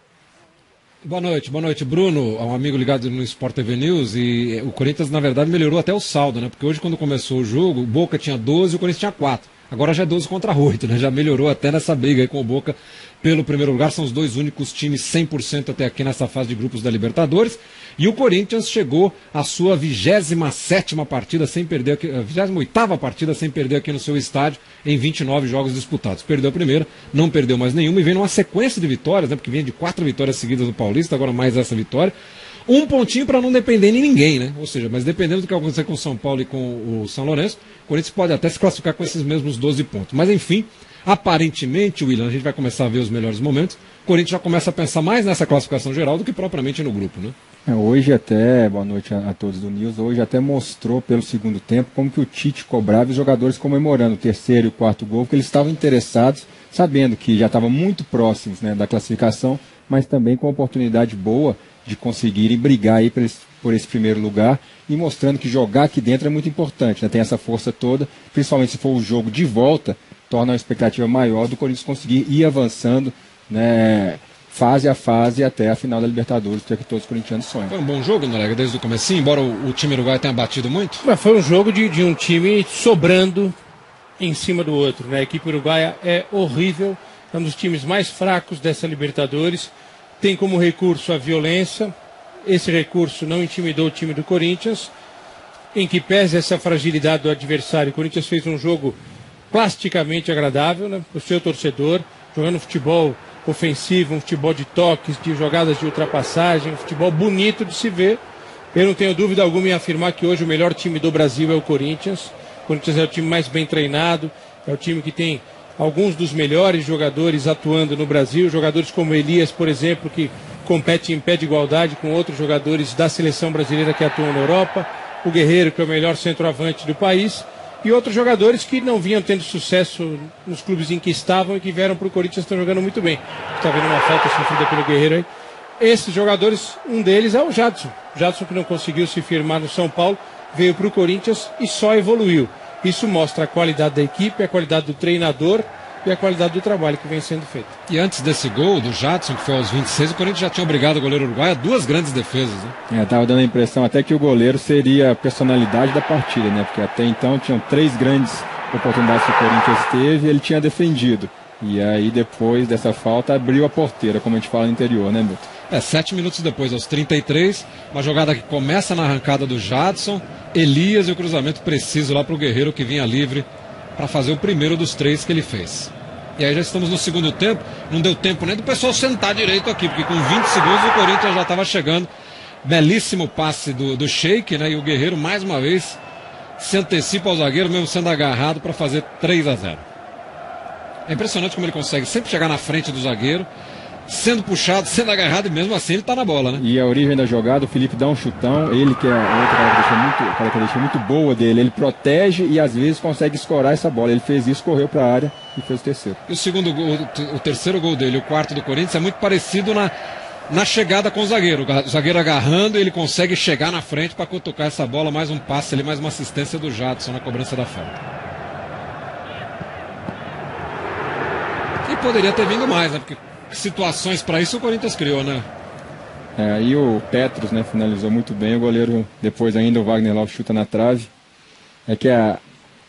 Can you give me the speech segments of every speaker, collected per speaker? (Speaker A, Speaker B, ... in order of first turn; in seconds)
Speaker A: 1.0-32.1, 32.7-47.4, 77.7-81.0, 147.9-152.8, 165.7-182.1, 182.6-186.0, 186.6-189.8, 191.1-193.5, 194.1-196.6, 206.3-209.9, 210.5-218.0, 221.8-225.5
Speaker B: 47.7-77.7, 152.9-165.5, 196.6-206.2, 226.4-231.1, 231.9-232.4
Speaker C: 81.0-83.5, 84.2-91.9, 92.5-94.9, 95.7-99.0, 99.5-108.2, 108.7-135.3, 135.8-147.7